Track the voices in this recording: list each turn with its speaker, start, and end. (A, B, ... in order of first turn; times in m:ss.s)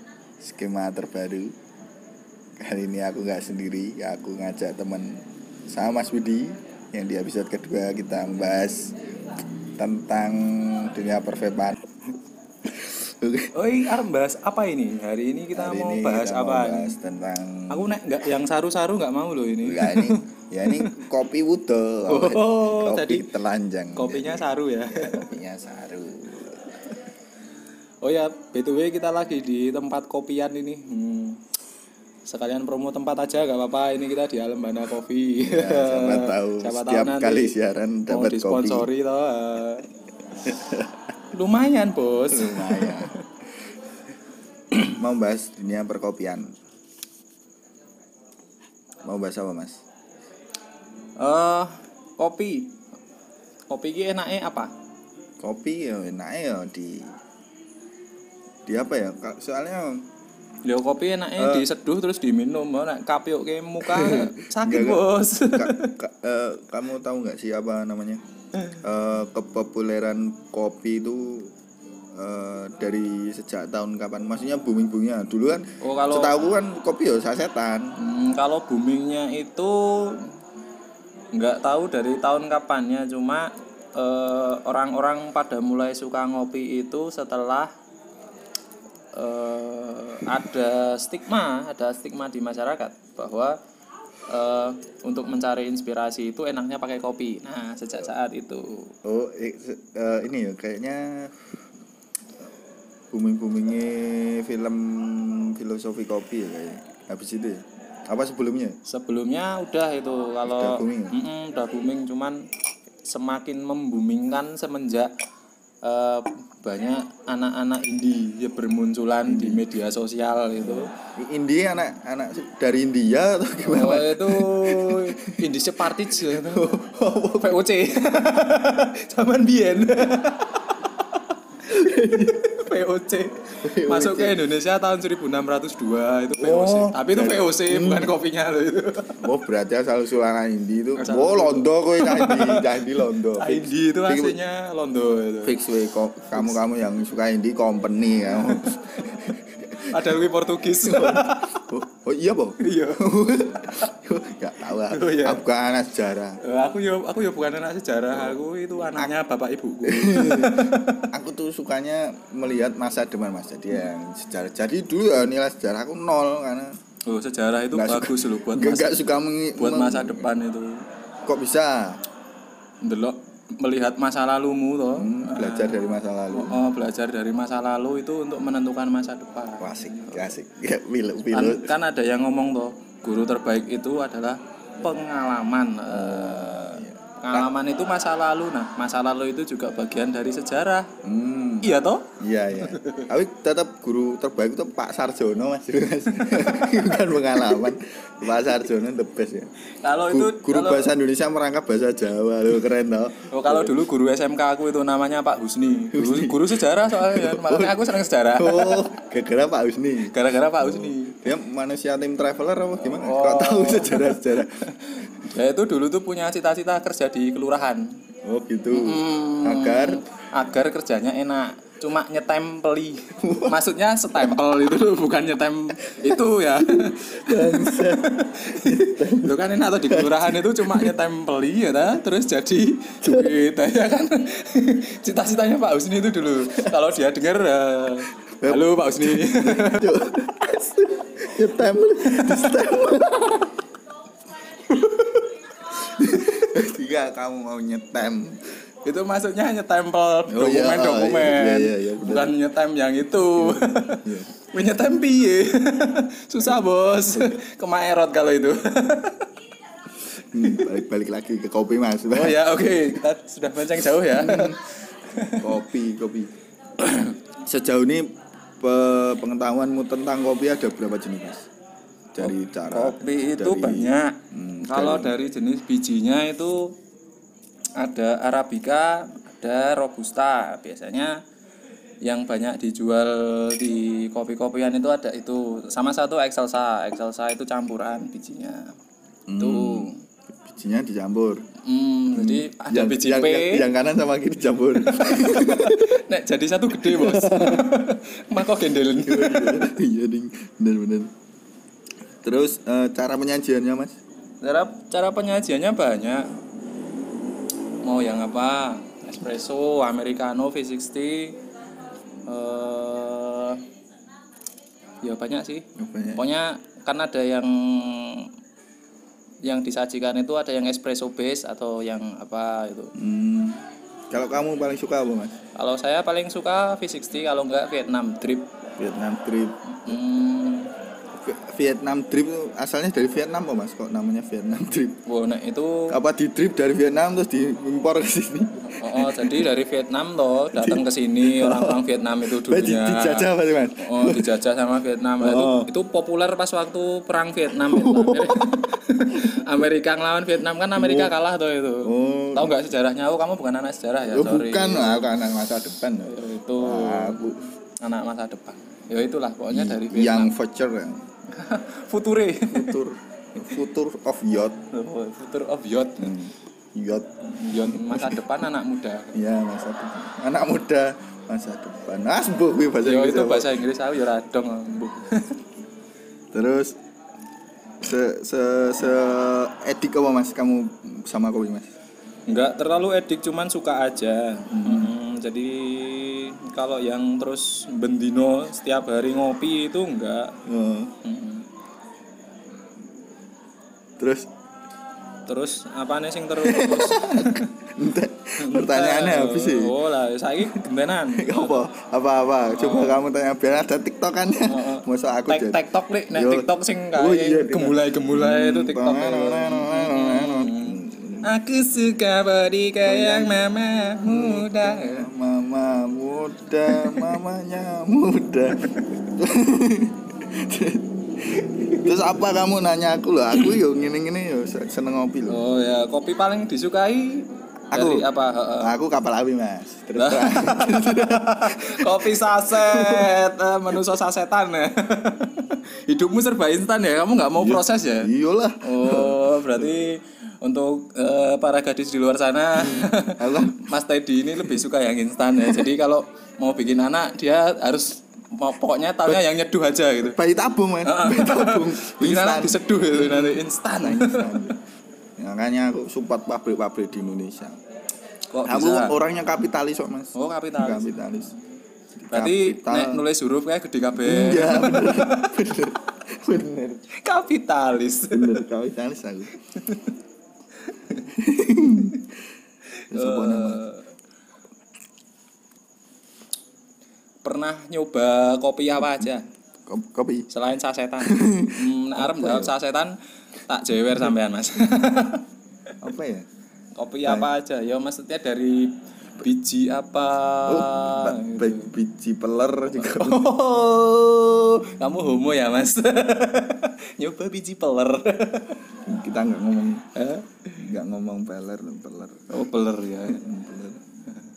0:00.4-0:01.6 A
0:02.6-0:08.9 A
0:09.8-0:11.9 A
0:12.6-0:13.5 A
0:13.5-0:17.0 B
0:15.5-0:17.9 A
0:17.7-0:21.0 B
0:19.6-0:26.6 A
0:22.1-0:23.2 B
0:23.9-0:25.3 B
0:28.0-0:31.4 B
0:32.3-0:37.5 B
0:35.4-0:38.9 A
0:38.1-0:39.9 B
0:40.4-0:41.0 A
0:41.3-0:43.2 B
0:42.3-0:43.1 A
0:44.7-0:46.6 A
0:49.0-0:49.8 A
0:51.2-0:52.8 B
0:53.7-0:54.7 B
0:55.4-0:57.1 A
0:58.6-1:00.1 A
1:00.6-1:05.9 B
1:01.4-1:01.6 A
1:03.8-1:08.2 A
1:08.8-1:11.5 A
1:12.1-1:18.0 A
1:15.8-1:16.3 B
1:18.0-1:20.3 B
1:21.3-1:27.7 B
1:29.1-1:33.6 B
1:34.3-1:38.9 B
1:39.0-1:41.6 A
1:43.1-1:48.8 A
1:48.8-1:52.4 B
1:50.4-1:51.1 A
1:53.1-1:55.1 B
1:55.8-2:00.9 B
1:59.3-1:59.6 A
2:00.6-2:05.4 A
2:03.6-2:06.7 B
2:06.2-2:07.5 A
2:07.3-2:10.8 B
2:11.6-2:12.5 A
2:11.8-2:19.2 B
2:13.6-2:14.4 A
2:16.4-2:18.1 A
2:19.2-2:24.4 A
2:21.0-2:25.6 B
2:25.4-2:36.4 A
2:26.3-2:26.6 B
2:28.3-2:31.7 B
2:32.6-2:33.1 B
2:33.6-2:33.9 B
2:34.8-2:35.4 B
2:36.4-2:41.1 B
2:39.8-2:46.8 A
2:47.1-2:49.0 B
2:47.7-2:50.3 A
2:49.6-2:50.8 B
2:51.2-2:52.0 A
2:52.8-3:00.3 B
2:54.9-2:56.6 A
2:59.6-3:01.7 A
3:01.3-3:10.9 B
3:05.9-3:07.5 A
3:11.0-3:19.5 A
3:11.6-3:12.1 B
3:12.6-3:13.1 B
3:16.2-3:17.7 B
3:19.8-3:20.9 B
3:20.0-3:23.7 A
3:23.2-3:28.9 B
3:25.9-3:34.6 A
3:30.0-3:31.3 B
3:32.8-3:38.0 B
3:38.2-3:40.0 A
3:38.7-3:59.9 B
3:43.2-3:43.6 A
3:45.9-3:50.9 A
3:53.0-3:53.3 A
3:56.4-3:56.7 A
3:58.2-4:03.5 A
4:04.7-4:05.2 B
4:05.7-4:08.6 A
4:05.9-4:06.4 B
4:08.8-4:19.3 B
4:10.3-4:12.3 A
4:13.4-4:14.3 A
4:17.1-4:17.4 A
4:20.3-4:22.8 A
4:20.4-4:20.7 B
4:22.1-4:25.5 B
4:24.1-4:24.6 A
4:25.4-4:26.3 A
4:26.8-4:27.1 B
4:27.4-4:31.5 A
4:32.1-4:35.2 A
4:32.2-4:36.7 B
4:37.8-4:41.2 B
4:42.0-4:48.8 B
4:49.3-4:51.4 A
4:49.4-4:50.0 B
4:51.6-4:53.7 B
4:52.1-4:56.0 A
4:54.8-4:59.6 B
4:56.7-4:57.7 A
4:58.4-5:01.1 A
5:02.2-5:04.0 A
5:04.4-5:06.3 B
5:07.8-5:11.4 B
5:12.2-5:13.6 B
5:15.0-5:18.3 B
5:15.8-5:16.2 A
5:19.4-5:22.9 B
5:22.9-5:25.4 A
5:25.6-5:28.5 B
5:28.8-5:29.6 A
5:29.7-5:30.7 B
5:31.1-5:35.0 A
5:35.0-5:36.0 B
5:35.9-5:39.5 A
5:38.6-5:55.1 B
5:40.5-5:44.3 A
5:45.2-5:45.7 A
5:47.5-5:49.4 A
5:50.7-5:51.1 A
5:51.8-5:52.6 A
5:54.0-5:57.4 A
5:56.0-6:00.3 B
5:59.5-6:01.0 A
6:01.3-6:02.8 B
6:02.5-6:04.6 A
6:04.7-6:06.1 B
6:06.0-6:08.2 A
6:07.3-6:09.2 B
6:09.1-6:13.5 A
6:12.8-6:15.4 B
6:16.3-6:16.8 A
6:17.8-6:21.7 A
6:22.3-6:30.3 B
6:24.5-6:24.9 A
6:30.4-6:30.9 A
6:31.0-6:31.4 B
6:34.0-6:34.3 A
6:35.3-6:37.6 B
6:36.4-6:39.8 A
6:38.4-6:41.6 B
6:41.1-6:45.6 A
6:42.5-6:43.0 B
6:44.5-6:55.1 B
6:46.1-6:51.2 A
6:52.8-6:53.4 A
6:54.0-7:05.4 A
6:56.7-6:57.2 B
7:01.6-7:01.8 B
7:05.3-7:08.7 B
7:07.7-7:08.1 A
7:08.6-7:13.2 A
7:10.0-7:18.1 B
7:17.3-7:19.7 A
7:18.6-7:30.2 B
7:22.6-7:23.7 A
7:25.4-7:25.6 A
7:30.0-7:34.6 A
7:30.8-7:34.6 B
7:35.2-7:37.6 A
7:38.3-7:39.0 B
7:38.4-7:41.3 A
7:40.1-7:41.2 B
7:41.9-7:43.0 A
7:42.1-7:45.4 B
7:43.9-7:46.8 A
7:46.9-7:48.4 B
7:48.1-7:49.3 A
7:49.5-7:49.9 B
7:50.6-7:51.0 B
7:51.1-7:52.1 A
7:52.8-7:53.9 B
7:52.9-7:53.6 A
7:57.2-7:59.2 B
7:59.6-8:00.3 A
8:00.3-8:03.0 B
8:01.0-8:02.5 A
8:03.5-8:05.2 B
8:05.8-8:06.3 A
8:06.8-8:11.7 B
8:10.5-8:14.8 A
8:12.7-8:13.6 B
8:14.8-8:18.6 B
8:18.8-8:19.9 A
8:19.9-8:20.6 B
8:20.6-8:22.3 A
8:22.3-8:23.2 B
8:23.0-8:23.8 A